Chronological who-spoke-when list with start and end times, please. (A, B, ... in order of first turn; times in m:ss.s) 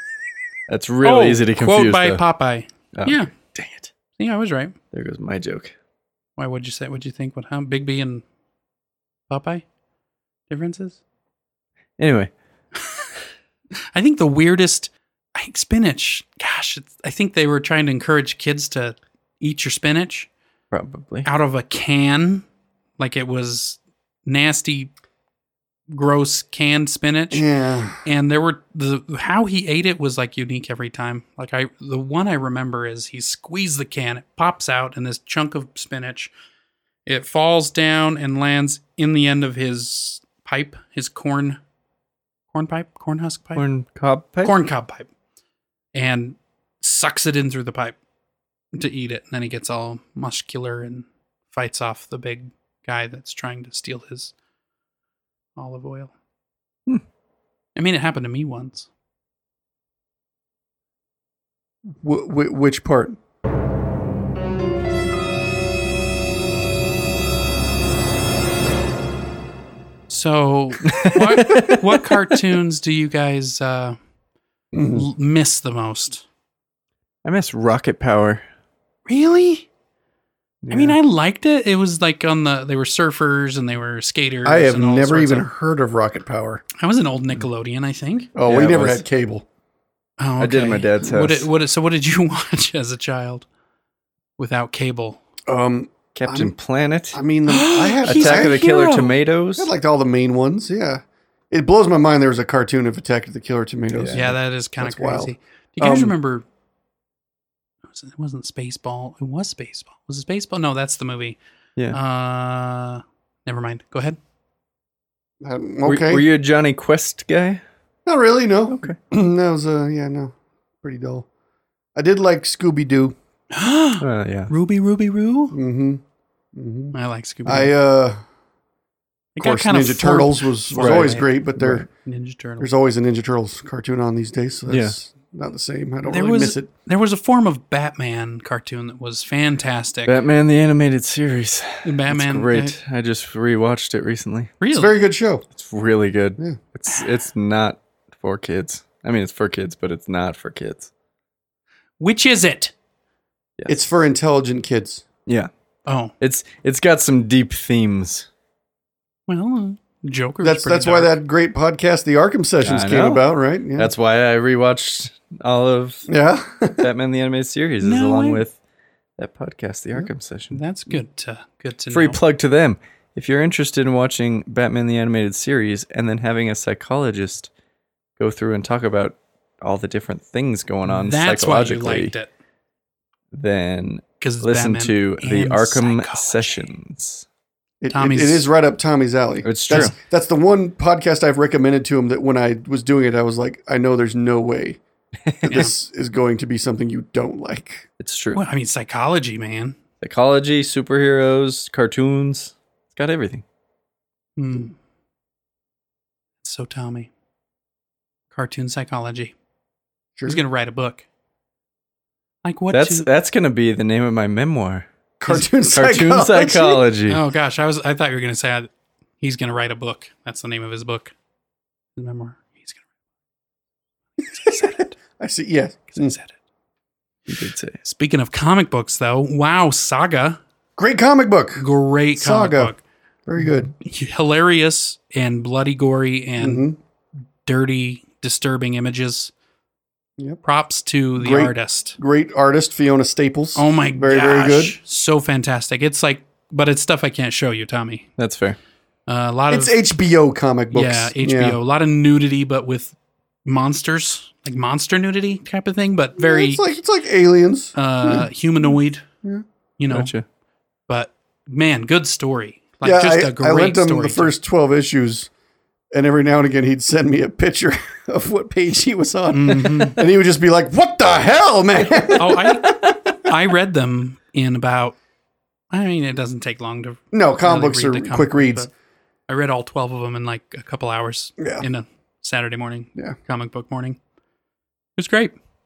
0:00.7-0:02.2 A
0:01.0-0:03.3 B
0:02.9-0:03.9 A
0:04.2-0:04.7 B
0:04.9-0:05.7 A
0:06.4-0:08.2 B
0:09.3-0:09.6 B
0:10.5-0:11.0 B
0:12.0-0:12.3 A
0:13.9-0:20.3 B
0:20.7-0:21.3 A
0:21.2-0:22.4 B
0:23.0-0:24.9 B
0:25.9-0:27.4 B
0:27.3-0:28.0 C
0:28.0-0:36.3 B
0:37.0-0:41.6 B
0:42.5-0:43.6 B
0:43.6-0:44.5 A
0:44.4-0:45.1 B
0:45.9-0:48.0 B
0:48.7-0:54.3 B
0:55.6-0:56.1 B
0:57.8-0:58.9 B
1:02.0-1:03.2 C
1:10.1-1:14.0 B
1:10.8-1:12.4 A
1:14.7-1:15.1 C
1:14.9-1:16.2 B
1:17.2-1:18.4 A
1:19.1-1:19.7 B
1:20.6-1:21.0 A
1:20.7-1:25.4 B
1:24.4-1:26.6 C
1:26.8-1:28.3 B
1:28.3-1:29.4 C
1:28.4-1:29.0 A
1:30.2-1:33.4 B
1:30.4-1:31.5 A
1:34.4-1:35.2 B
1:35.5-1:36.5 C
1:36.1-1:37.2 A
1:37.1-1:38.6 C
1:37.5-1:39.1 B
1:38.0-1:39.7 A
1:39.6-1:46.1 C
1:43.9-1:44.2 A
1:44.1-1:46.4 B
1:47.9-1:51.4 B
1:51.9-1:54.2 B
1:55.4-1:56.2 C
1:55.8-1:57.6 A
1:58.0-2:01.3 C
1:58.7-1:59.0 A
2:01.9-2:03.1 C
2:03.5-2:05.6 B
2:04.0-2:04.5 A
2:05.5-2:06.0 C
2:06.5-2:06.9 C
2:06.9-2:07.7 B
2:07.4-2:08.2 C
2:09.4-2:11.3 B
2:09.4-2:11.9 C
2:10.7-2:11.8 A
2:12.0-2:12.7 B
2:12.6-2:16.7 C
2:14.7-2:14.9 A
2:16.1-2:20.2 B
2:20.1-2:24.5 A
2:21.8-2:22.8 B
2:24.6-2:25.0 B
2:24.7-2:25.4 C
2:25.5-2:30.9 A
2:32.0-2:32.7 B
2:33.7-2:35.0 C
2:35.8-2:36.1 B
2:36.2-2:38.3 A
2:39.3-2:41.1 B
2:40.4-2:43.9 C
2:42.6-2:43.2 A
2:43.8-2:46.1 A
2:46.1-2:46.9 C
2:46.8-2:48.6 A
2:47.8-2:48.4 B
2:49.2-2:50.6 A
2:50.5-2:52.2 B
2:51.9-2:57.5 A
2:58.2-3:02.1 A
3:00.8-3:02.3 B
3:03.3-3:07.2 A
3:04.2-3:06.7 B
3:07.8-3:14.8 C
3:07.9-3:08.5 B
3:09.4-3:09.9 A
3:15.2-3:15.6 A
3:15.4-3:17.9 C
3:18.0-3:18.4 A
3:18.3-3:19.8 B
3:20.0-3:23.4 A
3:24.4-3:24.7 B
3:26.4-3:27.1 B
3:28.3-3:29.3 B
3:30.2-3:31.0 B
3:32.4-3:33.0 B
3:32.7-3:34.8 A
3:35.2-3:36.8 C
3:35.7-3:37.2 A
3:37.1-3:41.1 B
3:42.0-3:42.8 B
3:44.2-3:46.1 C
3:44.2-3:45.0 B
3:45.9-3:46.3 B
3:47.3-3:47.8 A
3:47.8-3:50.4 B
3:50.8-3:51.6 C
3:51.6-3:52.8 B
3:52.2-3:52.7 C
3:53.2-3:53.7 C
3:53.8-3:56.7 B
3:56.4-3:56.8 C
3:57.4-3:59.3 B
4:00.4-4:02.0 B
4:01.2-4:04.8 C
4:03.6-4:08.1 B
4:08.2-4:08.6 A
4:09.1-4:09.8 B
4:09.5-4:11.6 C
4:10.7-4:16.6 B
4:16.2-4:18.3 C
4:17.7-4:19.0 B
4:19.8-4:20.1 B
4:19.9-4:20.2 A
4:20.9-4:24.3 B
4:22.8-4:25.3 C
4:25.9-4:32.8 C
4:29.3-4:30.0 B
4:32.2-4:35.0 B
4:35.7-4:38.7 B
4:37.1-4:38.7 C
4:39.3-4:44.0 B
4:41.4-4:41.6 C
4:45.0-4:45.3 B